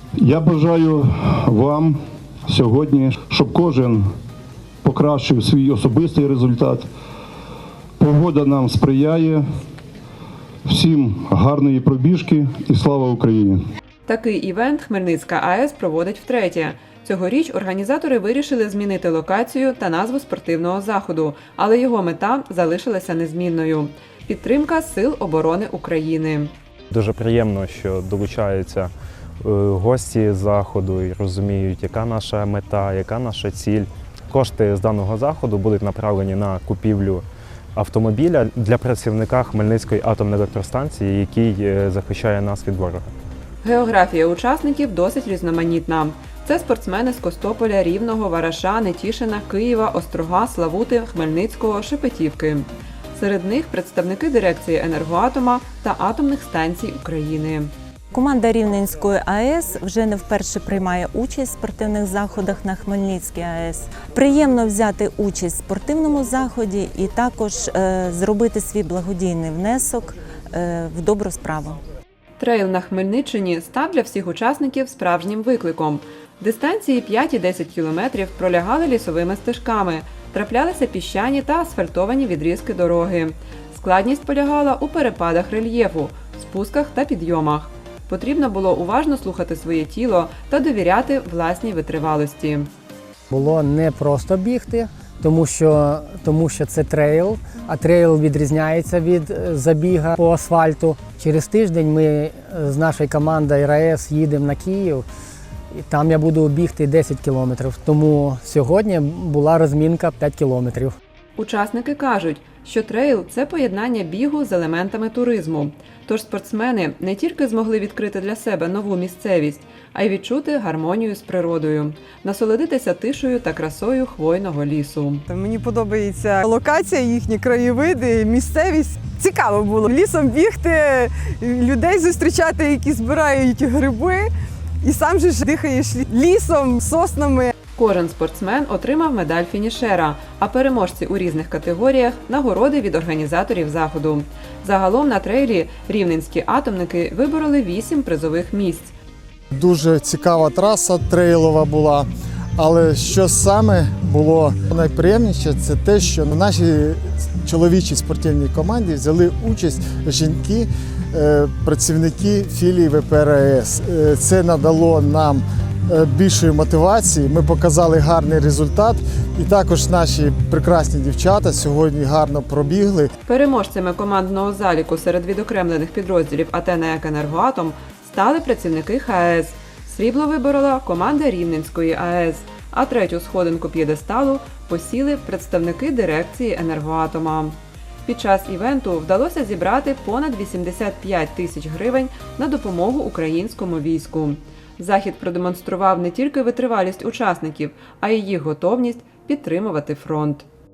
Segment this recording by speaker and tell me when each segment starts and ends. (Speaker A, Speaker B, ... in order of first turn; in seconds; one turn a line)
Speaker A: 0.2-4.1
Speaker A: 4.8-6.9
Speaker A: 8.0-9.4
Speaker A: 10.7-13.6
Speaker B: 14.1-26.5
Speaker C: 26.9-43.1
Speaker B: 43.6-57.7
Speaker D: 58.1-71.8
Speaker B: 72.4-92.7
Speaker E: 93.3-105.0
Speaker E: 105.8-110.9
Speaker B: 111.4-125.3
Speaker F: 125.3-134.3
Speaker F: 134.8-137.5
Speaker B: 137.8-148.9
Speaker G: 149.5-173.1
Speaker B: 173.2-200.4